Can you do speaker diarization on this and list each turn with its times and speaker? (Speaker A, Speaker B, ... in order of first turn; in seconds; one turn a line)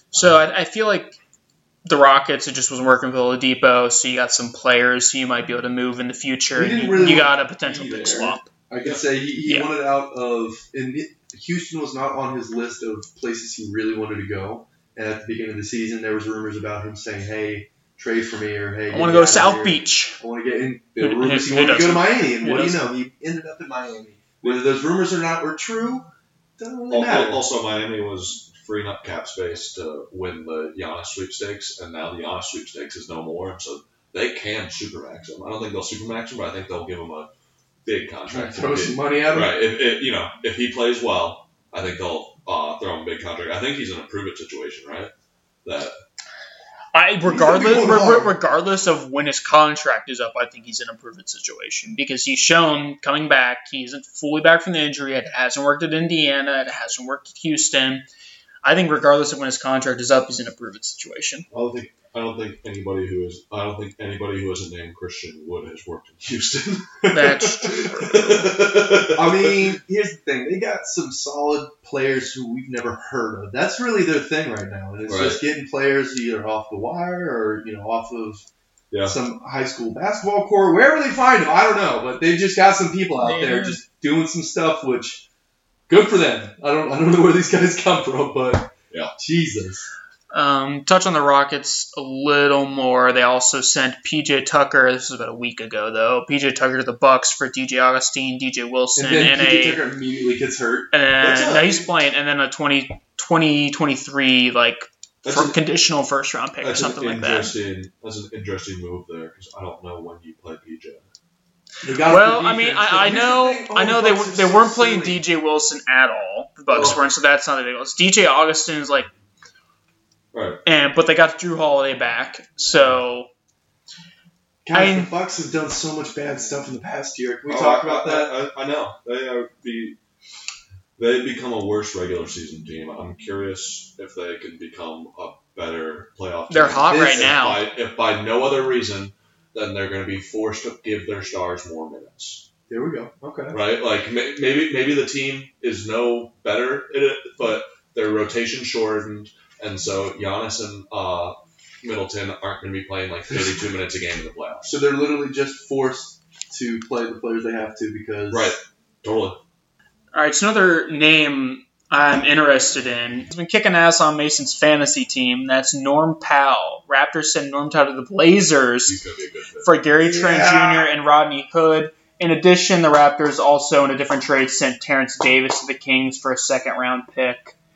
Speaker A: 0.1-1.2
Speaker A: 1.8-8.5
Speaker B: 6.5-27.5
Speaker A: 9.4-9.7
Speaker A: 18.9-20.2
Speaker A: 21.0-22.8
Speaker C: 26.9-37.3
Speaker C: 37.8-45.1
Speaker B: 38.3-39.6
Speaker C: 45.6-46.0
Speaker A: 46.9-58.0
Speaker B: 47.2-48.3
Speaker A: 58.6-61.5
Speaker C: 61.5-69.7
Speaker A: 67.1-68.2
Speaker B: 69.1-78.4
Speaker C: 75.1-75.4
Speaker C: 78.9-79.2
Speaker B: 79.0-85.2
Speaker A: 83.2-83.8
Speaker B: 85.9-89.9
Speaker A: 90.3-99.8
Speaker B: 99.0-100.9
Speaker A: 100.9-107.5
Speaker C: 101.2-101.9
Speaker C: 105.2-105.6
Speaker C: 106.6-111.0
Speaker B: 111.8-115.2
Speaker A: 112.0-119.1
Speaker C: 116.7-117.0
Speaker C: 120.3-120.6
Speaker A: 120.6-123.3
Speaker B: 124.6-128.3
Speaker A: 124.7-125.1
Speaker C: 127.5-129.9
Speaker C: 131.0-142.4
Speaker A: 136.5-137.7
Speaker B: 136.9-137.3
Speaker B: 142.7-143.6
Speaker C: 143.5-154.7
Speaker B: 154.6-158.5
Speaker C: 158.3-159.4
Speaker A: 160.1-169.0
Speaker C: 168.8-169.8
Speaker A: 169.6-177.5
Speaker B: 170.0-170.9